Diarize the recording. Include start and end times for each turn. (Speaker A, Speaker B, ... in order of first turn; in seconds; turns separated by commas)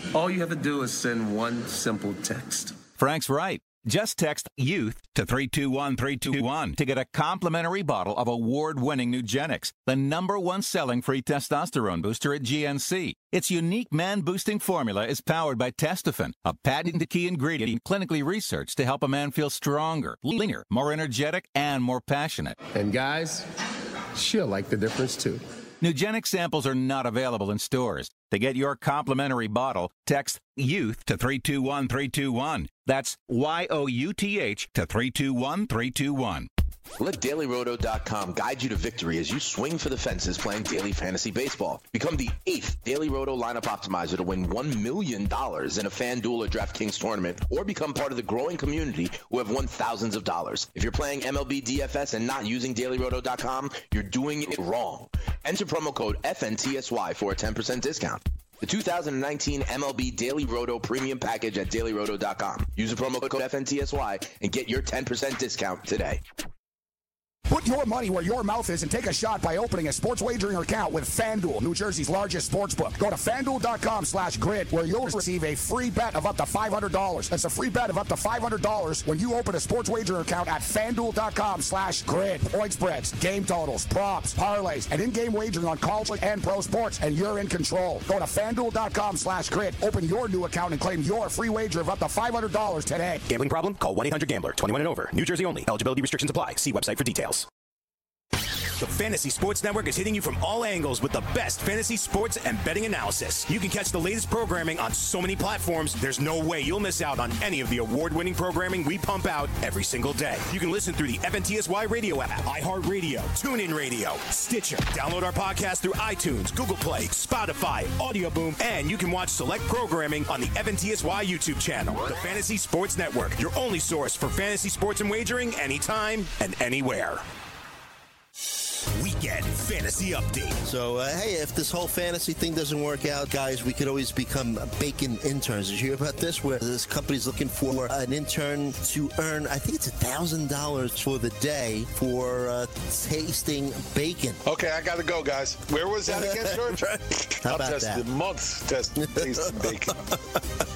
Speaker A: 0.1-2.8, Speaker B: 3.0-22.6, Speaker A: 22.7-23.5, Speaker A: 24.1-25.4, Speaker B: 25.8-36.5, Speaker C: 37.0-66.2, Speaker D: 67.5-93.2, Speaker E: 93.3-97.5, Speaker E: 98.8-127.2, Speaker E: 128.9-130.6, Speaker F: 130.6-144.4, Speaker G: 144.4-146.8, Speaker F: 146.1-148.1, Speaker G: 147.4-149.9, Speaker F: 149.0-150.1